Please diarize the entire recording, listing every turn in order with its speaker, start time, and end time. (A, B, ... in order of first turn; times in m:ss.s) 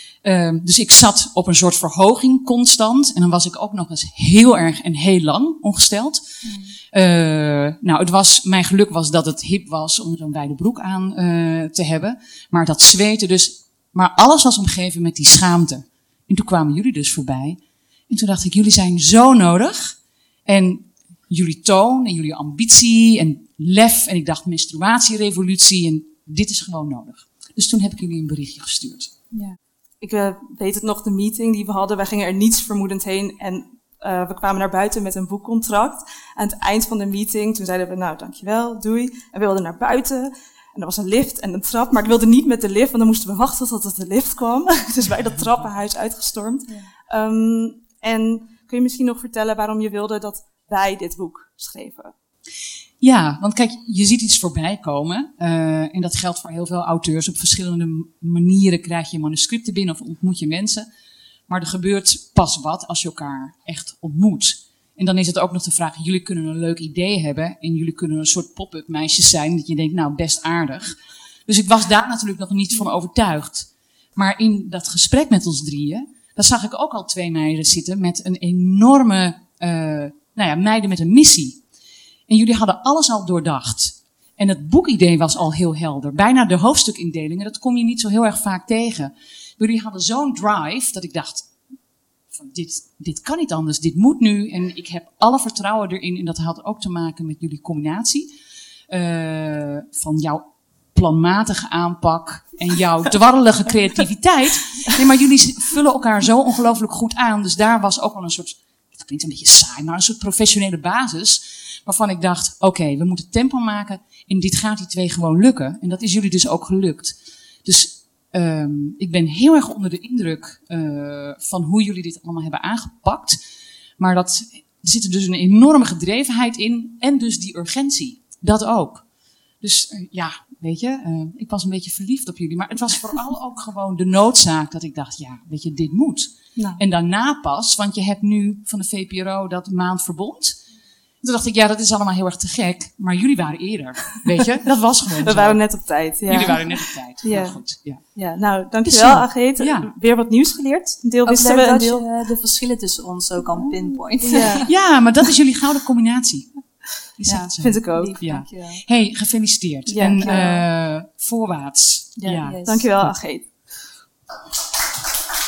0:00.2-0:06.2 A
0:06.4-0:06.8 B
0:06.9-0:29.1 A
0:30.0-0:52.1 C
0:53.0-1:00.9 A
1:01.5-1:11.0 A
1:11.5-1:21.6 A
1:22.3-1:31.5 A
1:32.3-1:38.3 A
1:38.9-2:03.4 A
2:04.0-2:09.0 A
2:09.6-2:20.6 A
2:16.6-2:16.8 C
2:21.2-2:28.0 A
2:25.2-2:27.6 C
2:28.2-2:32.0 C
2:28.8-2:29.9 A
2:31.2-2:34.7 B
2:33.6-2:34.7 C
2:34.6-2:43.2 A
2:37.2-2:38.2 C
2:38.0-2:38.8 B
2:39.9-2:40.6 C
2:40.2-2:40.5 B
2:42.2-2:43.7 C
2:42.2-2:42.9 B